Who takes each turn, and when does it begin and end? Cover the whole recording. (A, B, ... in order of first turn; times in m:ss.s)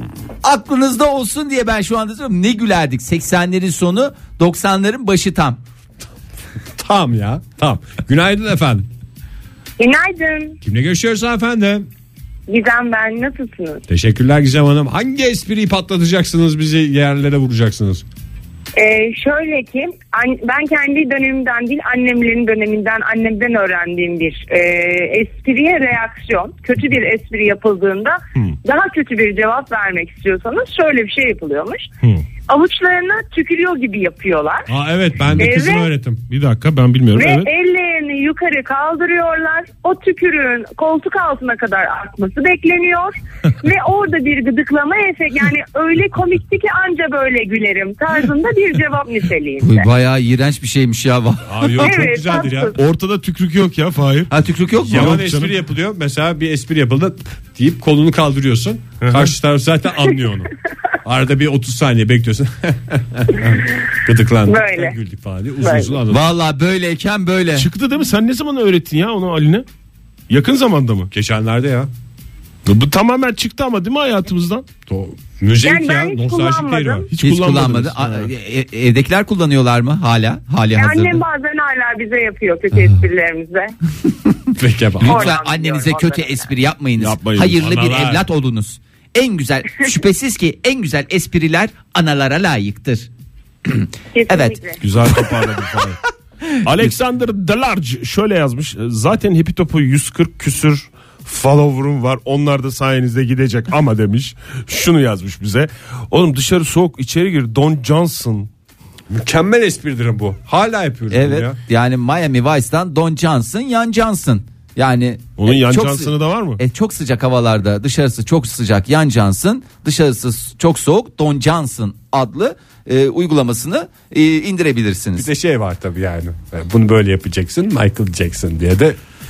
0:00.4-0:05.6 A
0:06.8-0:08.9 B
0:09.8-0:10.6 C
0:10.6-0:11.9 B
0:12.5-0:13.8 C
0:13.9-0:18.1 B
0:18.8-0:31.9 C
0:32.5-0:34.7 C
0:34.7-0:36.2 B
0:35.4-0:35.9 C
0:36.3-0:37.5 D
0:37.2-0:49.9 C
0:49.6-0:52.0 A
0:51.4-0:52.8 B
0:51.8-0:52.8 C
0:52.8-0:54.3 D
0:54.3-0:55.2 A
0:54.8-1:00.5 B
0:54.9-0:55.6 D
0:59.0-0:59.3 D
1:01.0-1:06.2 B
1:04.5-1:05.0 C
1:05.6-1:06.0 C
1:06.1-1:07.7 A
1:07.6-1:09.6 D
1:10.3-1:11.1 D
1:11.1-1:11.9 B
1:12.7-1:14.7 D
1:14.9-1:17.1 B
1:15.6-1:17.1 C
1:17.1-1:18.3 D
1:17.2-1:21.2 A
1:20.8-1:23.7 C
1:24.6-1:25.3 B
1:25.0-1:33.1 A
1:25.1-1:26.3 C
1:27.0-1:28.2 D
1:33.6-1:35.4 A
1:34.1-1:34.8 C
1:34.8-1:36.0 D
1:36.6-1:48.5 D
1:49.1-1:51.6 B
1:51.1-2:05.3 A
1:55.4-1:56.6 D
2:05.2-2:09.0 B